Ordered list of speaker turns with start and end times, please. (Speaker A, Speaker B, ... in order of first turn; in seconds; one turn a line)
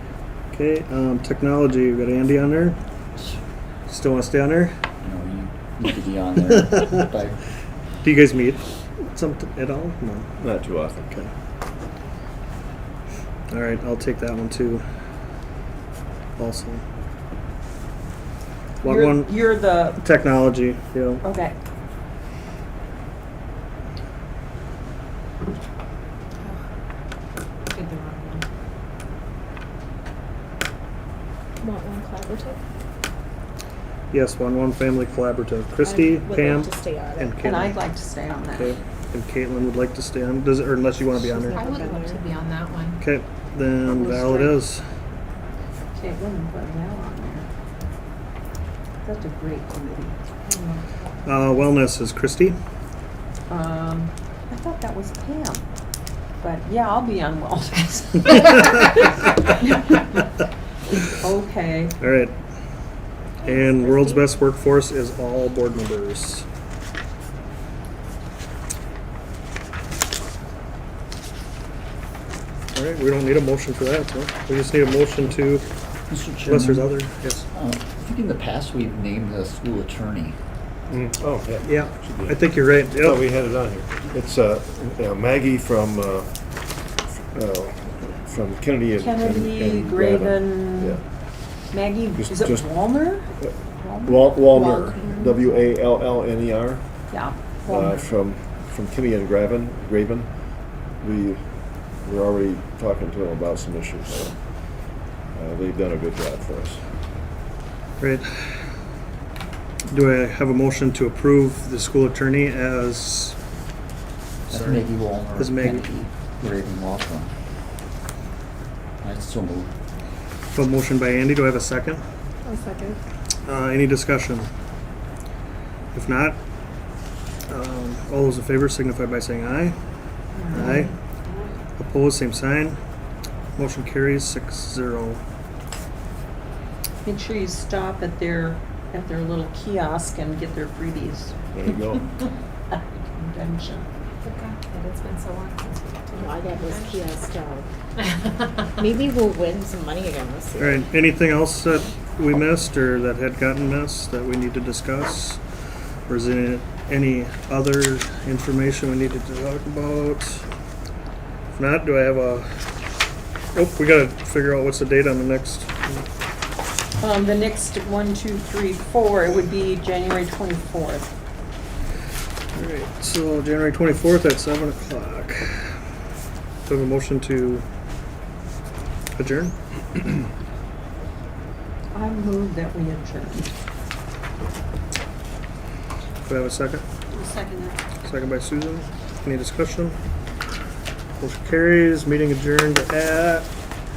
Speaker A: 0.5-2.8
Speaker A: 3.9-4.7
Speaker B: 5.0-7.4
Speaker A: 6.5-6.9
Speaker A: 8.0-10.3
Speaker C: 10.4-11.2
Speaker A: 13.5-14.8
Speaker A: 16.4-16.8
Speaker A: 18.8-21.2
Speaker D: 18.8-20.0
Speaker D: 21.2-21.6
Speaker E: 27.8-28.4
Speaker F: 31.6-32.6
Speaker A: 34.1-37.8
Speaker F: 35.8-37.4
Speaker D: 37.4-38.8
Speaker A: 38.6-41.6
Speaker F: 41.1-42.2
Speaker E: 41.5-43.0
Speaker A: 43.0-44.8
Speaker D: 43.9-44.6
Speaker D: 46.0-47.5
Speaker D: 49.0-50.9
Speaker A: 51.2-52.6
Speaker D: 53.5-55.6
Speaker D: 56.4-60.0
Speaker D: 61.1-62.0
Speaker A: 62.0-62.3
Speaker A: 63.4-66.5
Speaker D: 63.4-64.2
Speaker A: 72.7-75.7
Speaker B: 76.1-80.4
Speaker A: 76.4-77.5
Speaker C: 80.9-86.3
Speaker A: 81.6-83.2
Speaker C: 87.3-91.0
Speaker D: 89.0-91.0
Speaker D: 91.7-95.0
Speaker C: 92.2-92.8
Speaker C: 94.0-96.8
Speaker F: 94.8-95.3
Speaker D: 97.1-98.1
Speaker C: 97.7-100.3
Speaker C: 101.0-104.4
Speaker C: 105.3-106.8
Speaker A: 108.0-108.3
Speaker A: 109.9-113.3
Speaker A: 114.5-115.9
Speaker B: 114.5-117.3
Speaker B: 119.0-119.7
Speaker A: 120.5-122.0
Speaker F: 122.5-123.0
Speaker A: 123.5-124.5
Speaker A: 125.9-126.4
Speaker A: 127.5-129.7
Speaker D: 130.3-130.9
Speaker A: 130.5-130.9
Speaker A: 131.8-132.8
Speaker A: 133.6-135.2
Speaker D: 137.0-141.3
Speaker C: 141.5-142.1
Speaker D: 142.7-143.8
Speaker E: 144.2-147.2
Speaker F: 146.1-147.7
Speaker E: 148.0-148.8
Speaker F: 148.8-150.9
Speaker A: 150.6-155.4
Speaker A: 156.1-160.4
Speaker A: 161.5-162.5
Speaker A: 163.5-166.0
Speaker D: 167.0-171.1
Speaker A: 172.5-175.7
Speaker A: 176.7-177.6
Speaker A: 179.1-179.5
Speaker D: 181.9-183.5
Speaker A: 186.2-186.8
Speaker D: 187.1-187.8
Speaker A: 188.0-189.9
Speaker A: 191.2-193.5